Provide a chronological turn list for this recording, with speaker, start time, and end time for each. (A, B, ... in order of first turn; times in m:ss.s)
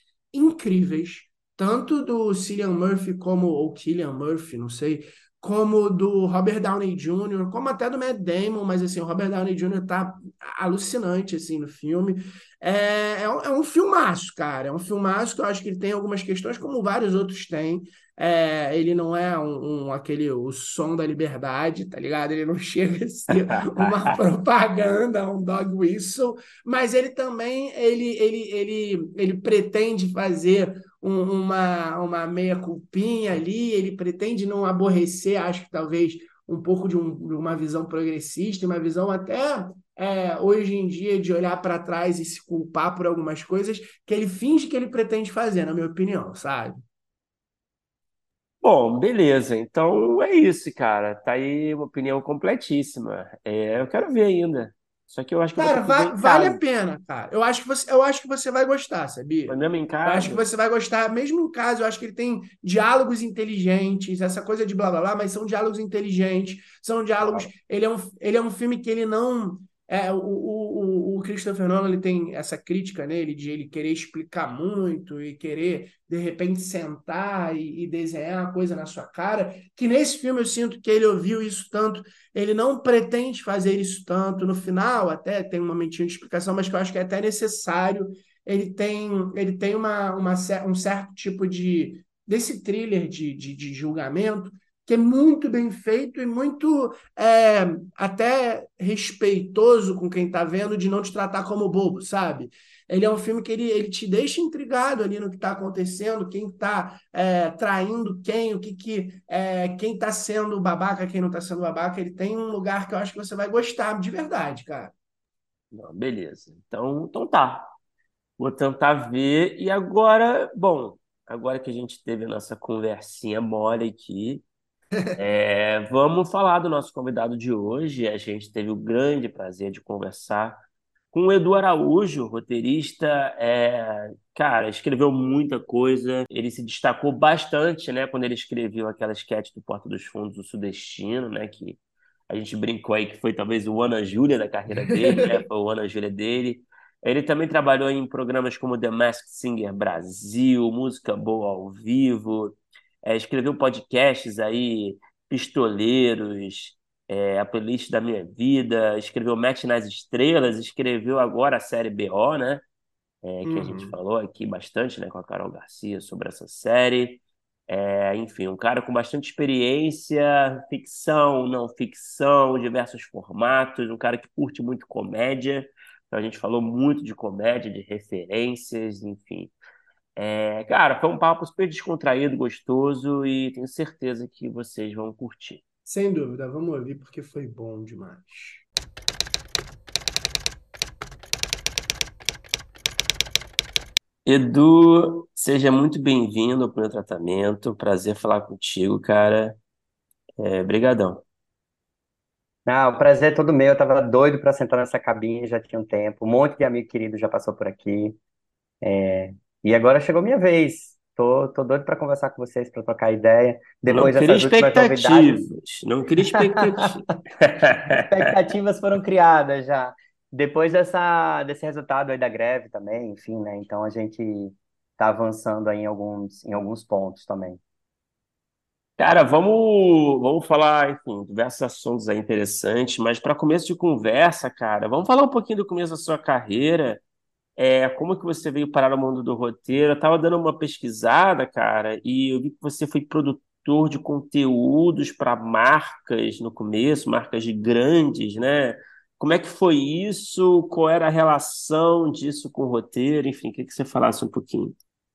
0:00.3-0:46.8 A
0:23.7-0:24.1 B
0:48.6-0:56.5 B
0:55.6-1:54.9 A
0:56.2-0:56.5 C
0:59.5-1:00.5 B
1:07.2-1:07.5 B
1:55.7-1:57.7 B
1:58.4-2:04.4 B
2:05.1-2:10.6 B
2:11.1-2:21.8 B
2:22.3-2:42.6 B
2:43.2-2:59.5 B
2:43.4-2:44.0 A
3:00.2-3:05.6 B
3:05.8-3:08.6 A
3:14.2-3:19.6 B
3:20.4-3:21.2 B
3:22.6-3:28.2 C
3:28.8-3:35.5 C
3:33.9-3:38.3 B
3:36.3-3:37.1 C
3:37.9-3:47.6 C
3:49.0-3:57.0 B
3:57.6-4:14.8 B